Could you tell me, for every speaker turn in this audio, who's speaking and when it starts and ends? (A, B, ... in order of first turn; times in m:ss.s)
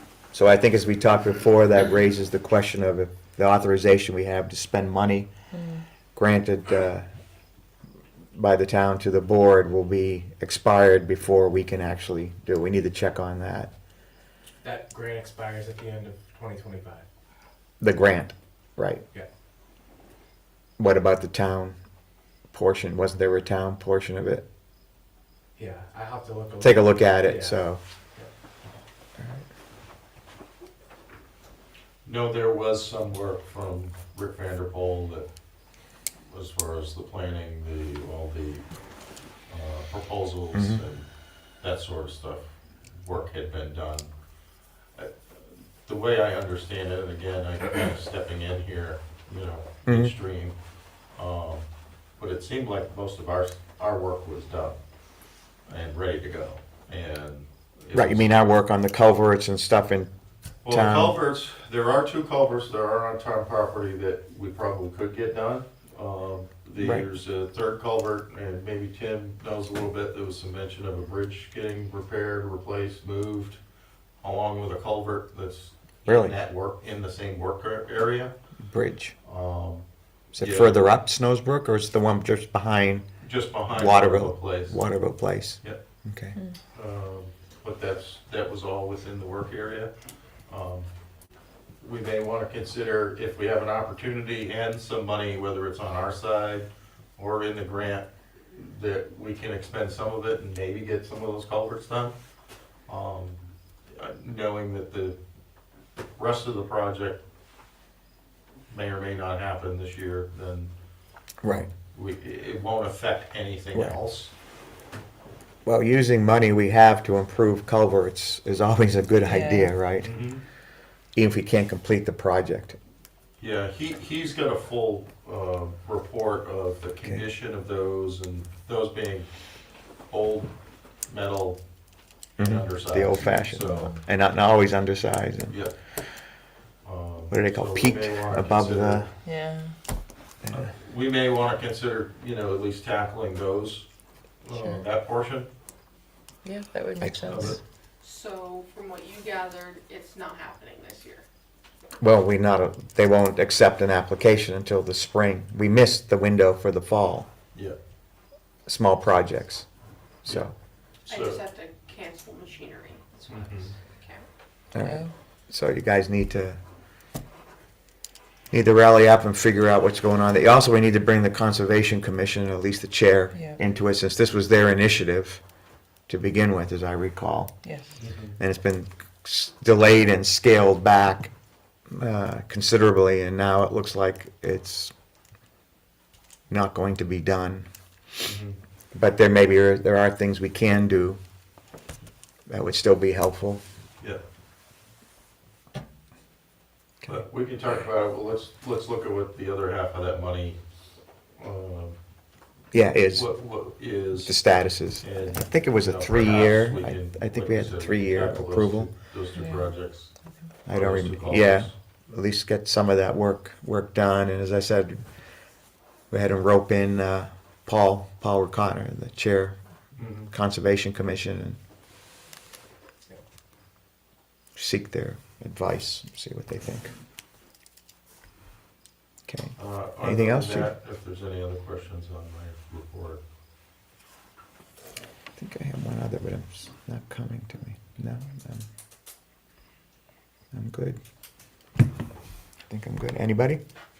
0:00.3-0:05.3 A
0:05.5-0:05.8 B
0:06.1-0:07.0 A
0:08.3-0:13.7 A
0:14.6-0:17.0 C
0:17.8-0:19.0 A
0:20.8-0:21.8 A
0:22.5-0:24.4 A
0:25.6-0:27.6 C
0:26.6-0:27.8 A
0:29.2-0:29.4 A
0:32.0-0:35.3 D
0:36.2-0:38.7 D
0:39.5-0:41.1 D
0:40.5-0:40.8 A
0:41.6-0:44.1 D
0:45.8-0:50.6 D
0:49.8-0:50.1 A
0:51.1-0:54.8 D
0:55.7-0:58.3 D
0:57.9-1:00.1 A
1:00.6-1:13.6 D
1:00.7-1:01.2 A
1:06.8-1:07.0 A
1:14.2-1:18.3 D
1:16.1-1:16.3 A
1:18.7-1:19.2 A
1:19.2-1:19.8 D
1:20.3-1:23.1 A
1:20.4-1:20.8 D
1:23.2-1:24.8 D
1:23.7-1:26.4 A
1:26.7-1:29.9 D
1:30.5-1:30.9 D
1:31.8-1:42.1 D
1:42.9-1:45.2 D
1:46.2-1:47.2 D
1:48.7-1:50.7 D
1:51.4-1:51.7 A
1:51.4-1:54.3 D
1:55.6-2:00.2 A
1:59.3-1:59.7 B
2:00.0-2:00.4 D
2:01.1-2:02.8 A
2:03.4-2:09.3 D
2:10.1-2:10.5 D
2:11.1-2:11.6 D
2:12.4-2:13.9 D
2:12.4-2:15.5 A
2:15.5-2:15.7 D
2:16.8-2:19.0 D
2:17.3-2:19.1 A
2:19.2-2:19.7 B
2:20.5-2:23.9 D
2:24.4-2:25.5 D
2:26.4-2:27.6 B
2:27.0-2:27.5 A
2:27.2-2:27.6 D
2:28.0-2:31.2 E
2:32.0-2:37.3 A
2:38.6-2:39.6 A
2:40.2-2:40.5 A
2:41.0-2:44.3 E
2:41.1-2:41.4 D
2:43.3-2:43.7 D
2:44.7-2:46.6 A
2:44.8-2:45.1 B
2:48.5-2:55.4 A
2:56.1-2:57.5 A
2:58.0-2:58.4 D
2:58.4-3:01.3 A
3:01.9-3:04.9 A
3:06.5-3:07.7 A
3:08.2-3:08.6 D
3:08.9-3:11.2 A
3:12.5-3:13.6 A
3:17.0-3:20.6 D
3:21.4-3:22.0 D
3:22.7-3:23.3 A
3:23.1-3:24.3 D
3:24.2-3:28.9 A
3:25.0-3:30.1 D
3:29.4-3:29.7 B
3:30.6-3:35.0 A
3:30.7-3:31.7 D
3:36.1-3:39.6 A
3:40.0-3:40.3 D
3:40.3-3:41.6 A
3:44.6-3:46.9 A
3:49.3-3:50.7 A
3:49.6-3:53.2 D
3:55.4-3:58.6 A
4:00.5-4:01.0 A
4:02.7-4:03.6 A